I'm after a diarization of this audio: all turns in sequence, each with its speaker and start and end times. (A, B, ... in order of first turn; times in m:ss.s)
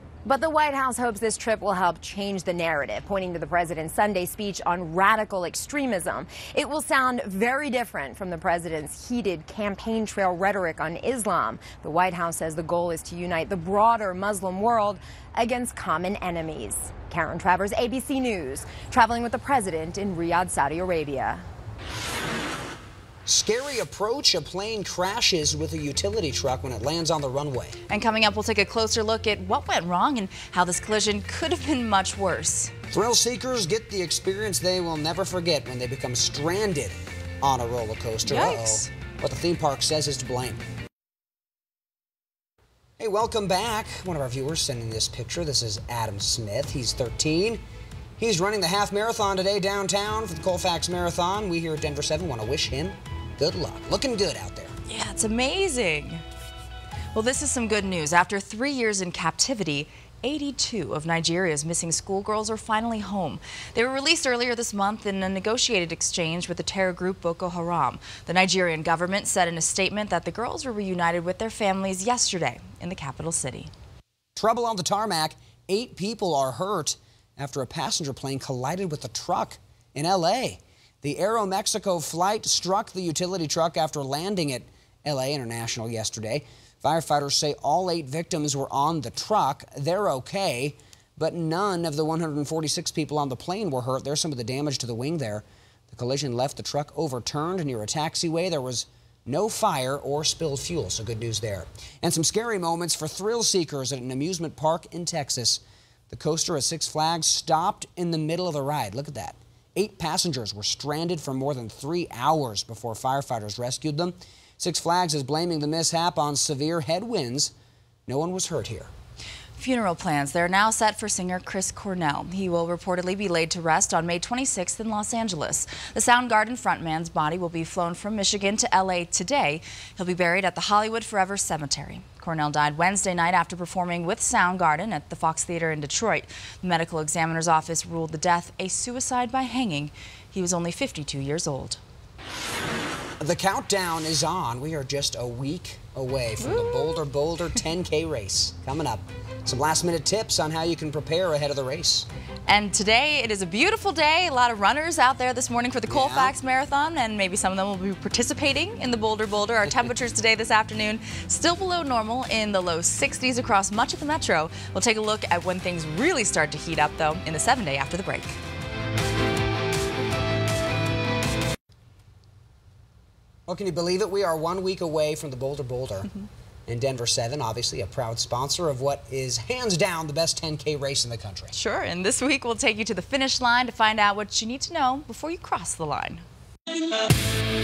0:00.2-0:21.4 A
0:23.3-0:27.8 B
0:27.9-0:32.7 C
0:32.9-0:40.6 B
0:38.2-0:38.9 C
0:43.0-0:47.6 B
0:48.2-0:54.7 B
0:54.9-0:56.2 C
0:57.1-1:13.7 C
1:14.4-1:57.5 B
1:58.1-1:58.9 B
1:59.6-2:21.8 C
2:23.2-2:32.1 B
2:26.4-2:27.0 C
2:32.5-2:48.4 C
2:35.9-2:36.4 B
2:53.5-2:56.1 B
2:56.7-3:01.5 B
3:01.5-3:06.2 C